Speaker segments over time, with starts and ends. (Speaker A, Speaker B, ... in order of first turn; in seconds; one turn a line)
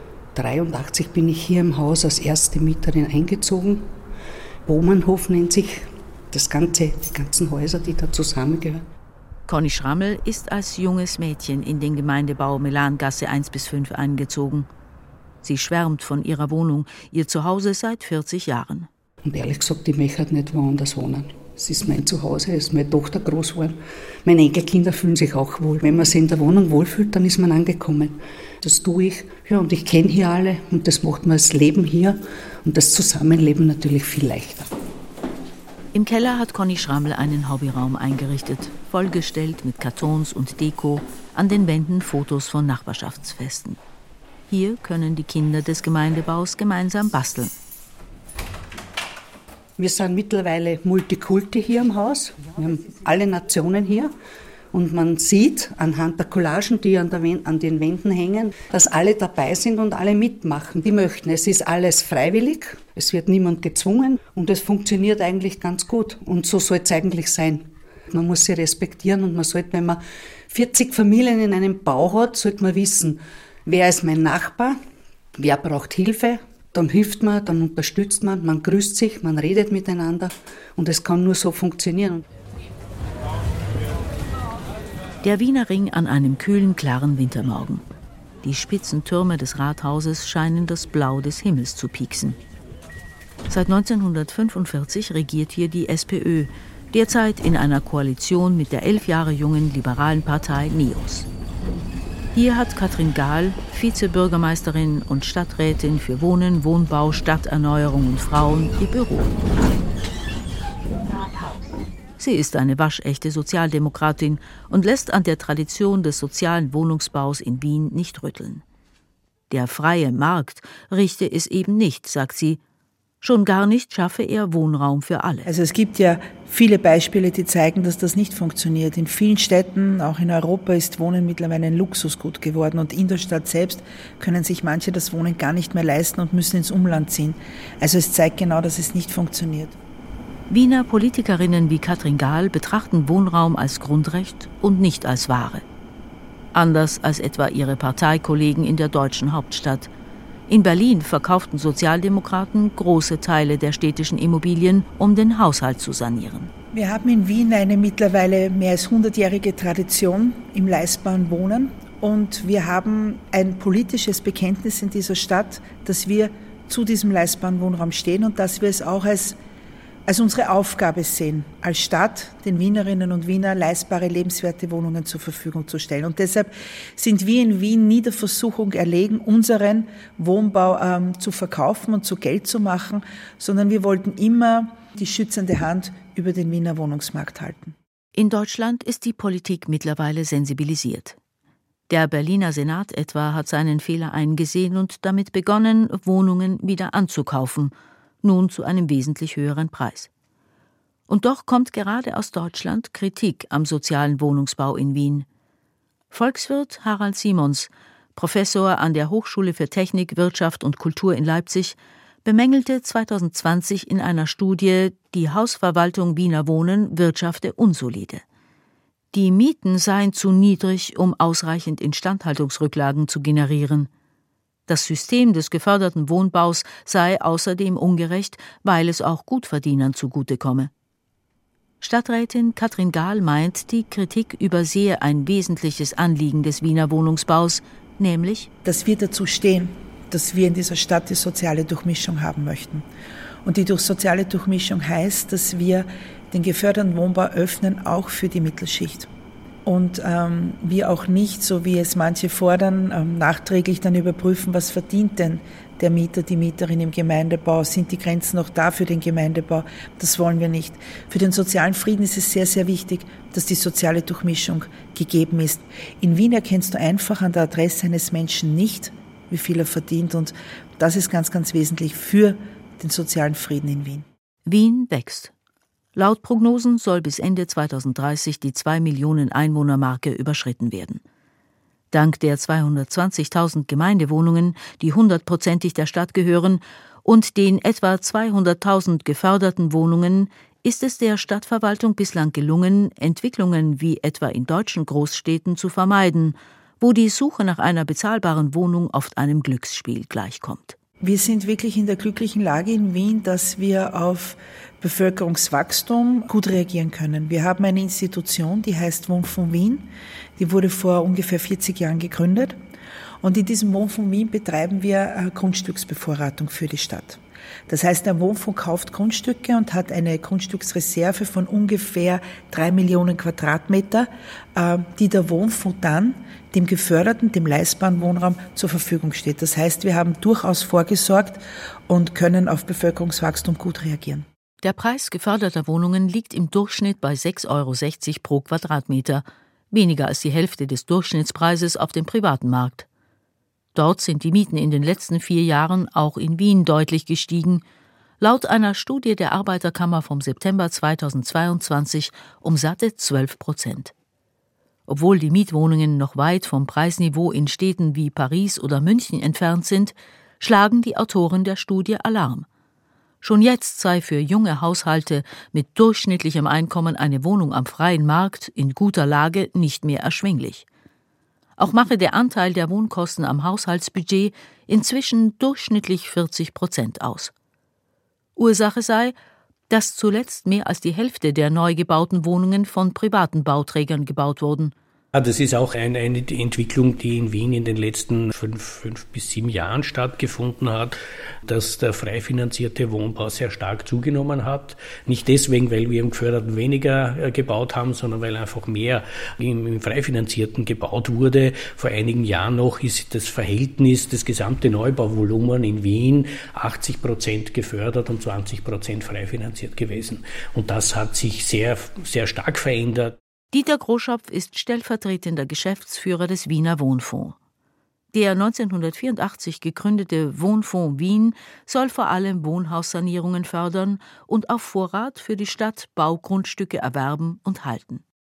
Speaker A: 0.3-3.9
Speaker A: 4.7-8.8
Speaker B: 9.5-14.7
Speaker B: 15.4-18.9
Speaker A: 19.2-34.7
Speaker B: 35.9-43.8
Speaker B: 44.5-47.5
Speaker A: 49.8-54.1
Speaker A: 54.7-74.8
Speaker A: 75.4-82.2
Speaker B: 85.2-87.9
Speaker B: 88.4-92.4
Speaker B: 93.5-101.3
Speaker B: 102.3-109.3
Speaker B: 112.2-118.6
Speaker B: 119.5-122.6
Speaker B: 123.2-125.5
Speaker C: 125.5-139.8
Speaker B: 140.5-145.6
Speaker B: 146.5-149.9
Speaker B: 150.5-156.5
Speaker C: 156.7-169.4
Speaker C: 170.1-187.8
Speaker B: 188.1-191.2
Speaker B: 191.9-200.1
Speaker B: 201.1-205.3
Speaker B: 206.1-218.2
Speaker B: 219.1-223.9
Speaker B: 224.7-230.7
Speaker B: 231.8-238.5
Speaker C: 238.6-242.9
Speaker C: 243.4-249.1
Speaker C: 249.6-274.1
Speaker B: 274.4-275.3
Speaker B: 275.9-281.0
Speaker B: 281.9-300.8
Speaker C: 301.0-312.6
Speaker C: 313.2-334.3
Speaker B: 334.6-342.9
Speaker B: 343.8-347.6
Speaker B: 348.2-353.9
Speaker B: 354.9-362.4
Speaker B: 363.2-370.6
Speaker B: 371.6-377.3
Speaker B: 378.4-379.1
Speaker B: 379.7-384.7
Speaker D: 385.1-413.2
Speaker B: 413.5-417.4
Speaker B: 418.1-428.0